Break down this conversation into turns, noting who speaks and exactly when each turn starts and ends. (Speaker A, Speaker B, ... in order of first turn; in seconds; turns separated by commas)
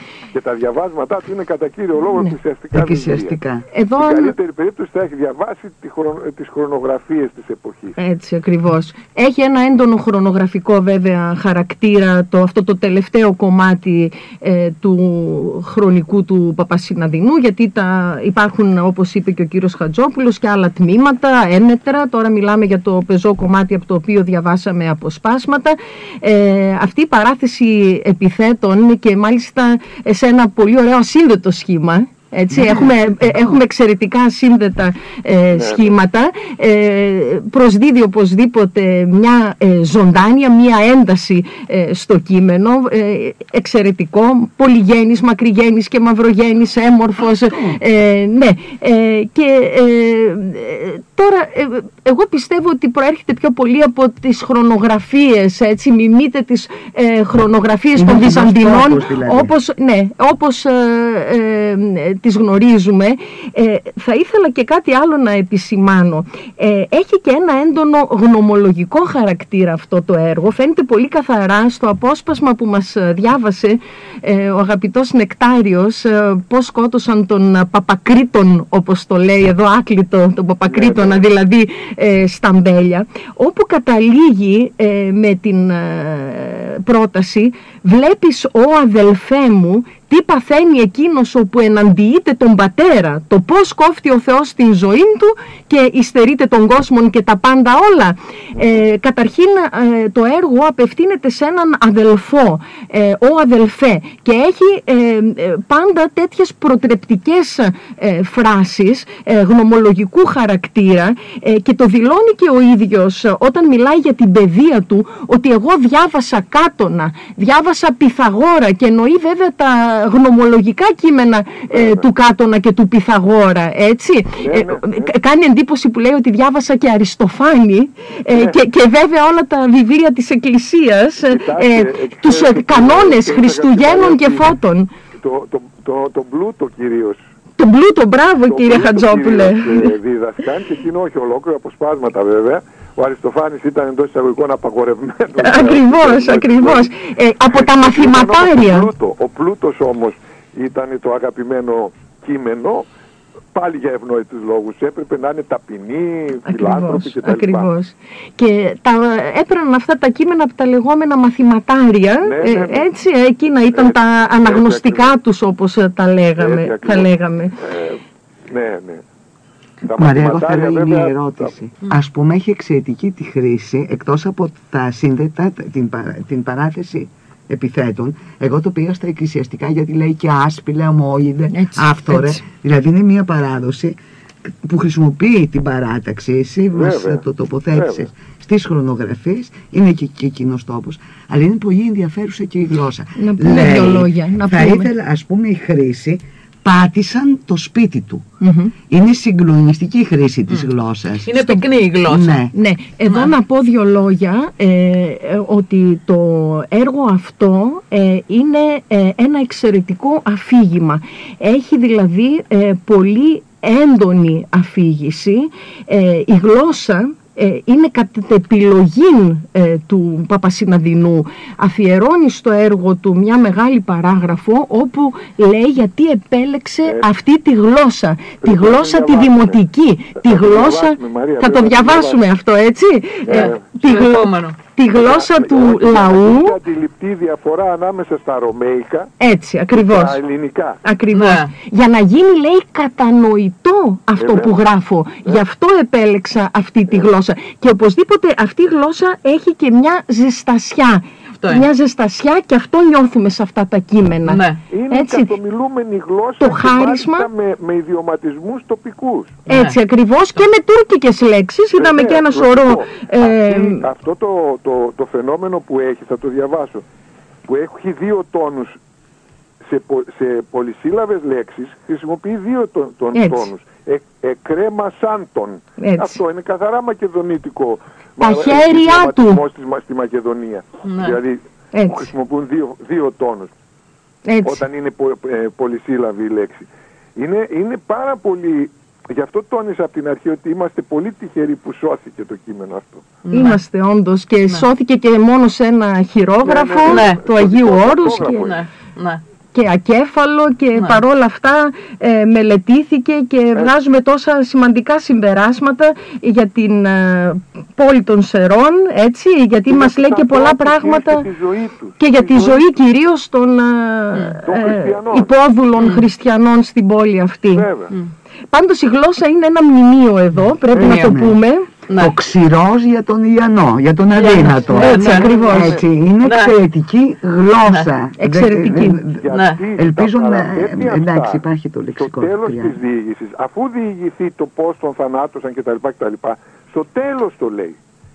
Speaker A: 0.3-3.4, Speaker B: 2.7-3.6, Speaker C: 3.7-4.3, Speaker A: 4.0-8.0, Speaker C: 8.0-134.9, Speaker B: 32.5-33.6, Speaker A: 35.5-36.0, Speaker B: 47.5-47.8, Speaker B: 58.0-59.5, Speaker A: 80.7-81.2, Speaker A: 121.7-122.0, Speaker A: 124.4-125.1, Speaker A: 128.3-128.6, Speaker A: 131.2-134.5, Speaker A: 135.2-137.2, Speaker C: 137.6-139.9, Speaker A: 138.5-146.9, Speaker C: 145.4-148.9, Speaker A: 147.5-152.9, Speaker A: 153.5-157.7, Speaker C: 156.4-167.6, Speaker A: 162.2-162.9, Speaker A: 163.7-165.2, Speaker A: 166.4-169.0, Speaker A: 169.8-171.5, Speaker B: 170.0-184.0, Speaker C: 181.5-182.4, Speaker B: 184.5-198.2, Speaker A: 186.8-187.2, Speaker A: 187.7-188.1, Speaker C: 193.2-194.9, Speaker C: 198.4-198.7, Speaker B: 198.9-201.3, Speaker D: 201.2-202.4, Speaker B: 202.1-202.5, Speaker C: 202.5-236.6, Speaker D: 203.1-203.3, Speaker A: 228.4-229.6, Speaker A: 230.2-232.2, Speaker A: 233.3-233.7, Speaker D: 233.3-234.6, Speaker A: 234.9-239.1, Speaker C: 239.2-240.2, Speaker A: 239.7-240.8, Speaker C: 240.8-255.3, Speaker D: 241.1-241.5, Speaker A: 244.2-244.6, Speaker D: 251.4-251.7, Speaker D: 254.3-254.6, Speaker A: 254.7-259.4, Speaker C: 256.4-257.3, Speaker D: 259.5-259.8, Speaker C: 259.5-263.9, Speaker A: 261.8-266.8, Speaker A: 267.5-268.8, Speaker A: 269.6-283.5, Speaker C: 273.1-273.5, Speaker C: 275.8-276.2, Speaker C: 278.2-279.4, Speaker D: 280.9-281.2, Speaker C: 281.7-282.1, Speaker C: 284.3-284.6, Speaker A: 284.4-293.1, Speaker D: 293.2-293.6, Speaker C: 293.3-298.5, Speaker A: 296.4-298.6, Speaker D: 296.9-297.2, Speaker D: 298.3-299.2, Speaker C: 299.5-311.3, Speaker D: 300.8-301.0, Speaker A: 309.7-312.6, Speaker C: 312.0-317.7, Speaker A: 314.4-315.3, Speaker D: 315.8-316.0, Speaker A: 317.5-317.9, Speaker C: 318.5-321.7, Speaker D: 320.7-321.2, Speaker B: 320.7-321.4, Speaker D: 321.9-322.1, Speaker B: 321.9-332.8, Speaker D: 324.2-326.6, Speaker C: 324.7-325.8, Speaker D: 327.7-327.9, Speaker C: 328.2-329.0, Speaker A: 329.1-331.4, Speaker D: 329.3-329.6, Speaker A: 332.0-337.8